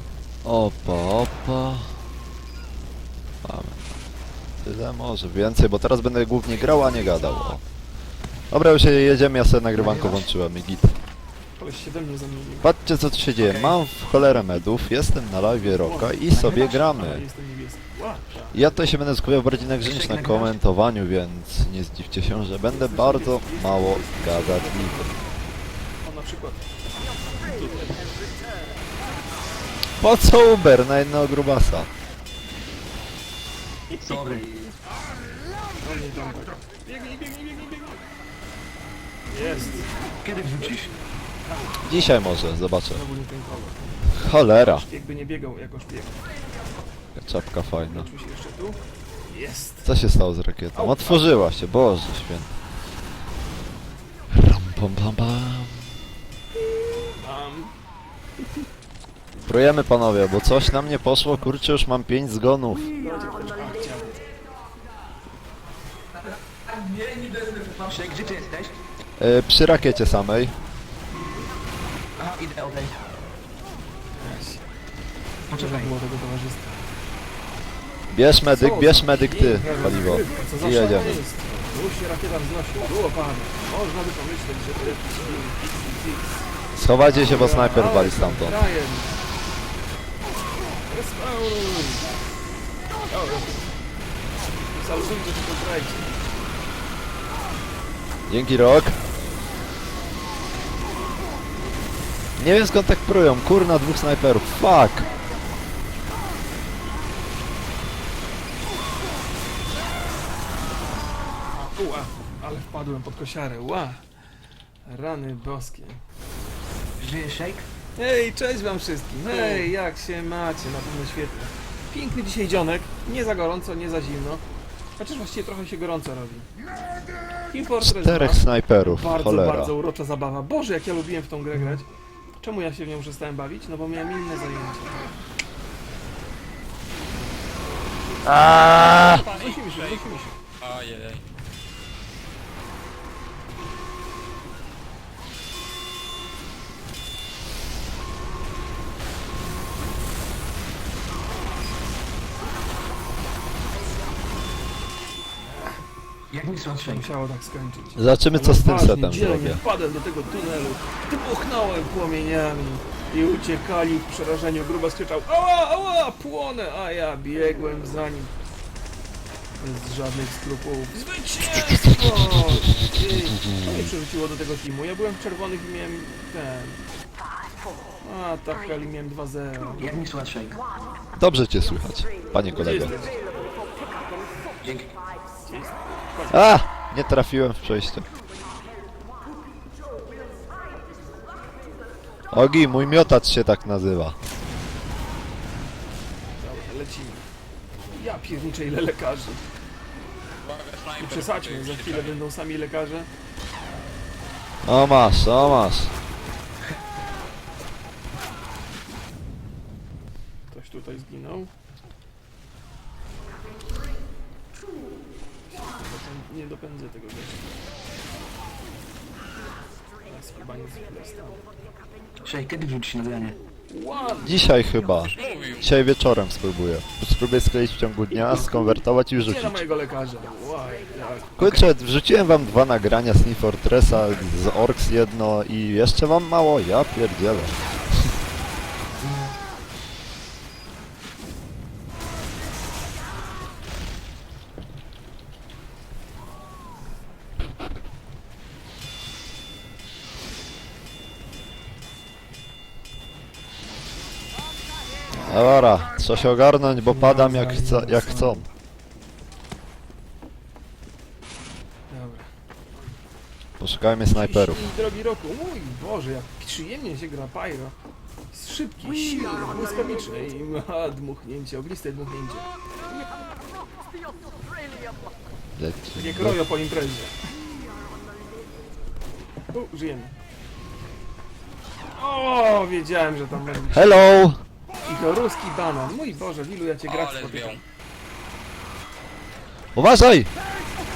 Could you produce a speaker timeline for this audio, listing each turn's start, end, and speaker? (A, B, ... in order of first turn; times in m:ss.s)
0:00.4-0:02.0 A
0:03.4-0:03.8 A
0:04.6-0:07.6 A
0:08.5-0:11.0 A
0:09.8-0:10.2 B
0:11.6-0:12.7 B
0:12.6-0:17.2 A
0:15.6-0:18.7 B
0:16.3-0:16.7 C
0:18.5-0:25.1 A
0:19.8-0:20.5 C
0:22.6-0:25.2 B
0:26.0-0:26.7 B
0:27.4-0:28.1 B
0:30.0-0:31.9 A
0:34.0-0:34.7 C
0:35.8-0:38.0 B
0:39.3-0:39.9 B
0:40.2-0:40.9 C
0:41.8-0:43.0 A
0:42.9-0:44.1 B
0:44.1-0:44.9 A
0:44.7-0:46.2 B
0:47.2-0:48.1 A
0:47.8-0:49.9 B
0:49.8-0:52.6 A
0:50.7-0:51.4 B
0:54.3-0:56.0 A
0:57.2-0:57.7 B
0:59.4-1:02.9 A
1:03.0-1:04.2 B
1:06.8-1:08.8 C
1:09.2-1:10.5 A
1:12.2-1:13.0 C
1:14.2-1:14.6 B
1:15.4-1:16.9 B
1:15.5-1:15.9 C
1:18.1-1:21.2 A
1:18.5-1:26.5 B
1:26.7-1:28.6 A
1:27.0-1:29.2 B
1:30.9-1:32.2 B
1:33.1-1:33.7 B
1:34.6-1:36.2 B
1:38.3-1:39.0 A
1:42.4-1:45.1 A
1:51.5-1:54.0 B
1:54.8-1:56.0 B
1:57.0-1:57.6 C
1:58.0-2:04.4 B
2:05.0-2:06.5 B
2:07.5-2:11.9 B
2:07.8-2:09.8 A
2:12.4-2:15.1 B
2:18.2-2:19.3 A
2:18.3-2:20.4 B
2:20.6-2:21.2 D
2:35.4-2:35.8 B
2:36.3-2:37.1 C
2:36.8-2:48.3 B
2:38.0-2:39.6 A
2:49.6-2:56.9 B
2:51.6-2:52.3 A
2:58.0-3:00.0 B
2:59.8-3:00.6 C
3:01.1-3:02.9 A
3:02.5-3:03.3 B
3:04.6-3:04.9 C
3:05.4-3:06.5 B
3:06.3-3:08.0 A
3:12.3-3:14.2 A
3:16.4-3:17.3 B
3:17.9-3:19.4 B
3:20.4-3:21.7 D
3:21.0-3:23.1 B
3:24.6-3:25.9 A
3:30.5-3:31.5 B
3:35.5-3:37.5 B
3:40.0-3:41.4 B
3:42.2-3:43.4 C
3:43.7-3:44.5 B
3:44.2-3:49.6 A
3:45.2-3:45.5 D
3:48.1-3:51.3 B
3:51.4-3:58.1 A
3:51.4-3:51.6 C
3:59.0-3:59.3 C
4:15.2-4:18.4 A
4:16.8-4:18.5 B
4:21.9-4:22.3 B
4:23.6-4:24.6 A
4:24.1-4:27.7 B
4:28.3-4:32.5 B
4:35.6-4:36.4 A
4:35.9-4:37.2 B
4:39.5-4:40.1 B
4:41.9-4:44.0 B
4:43.7-4:44.4 A
4:44.8-4:47.6 B
4:49.7-4:50.3 A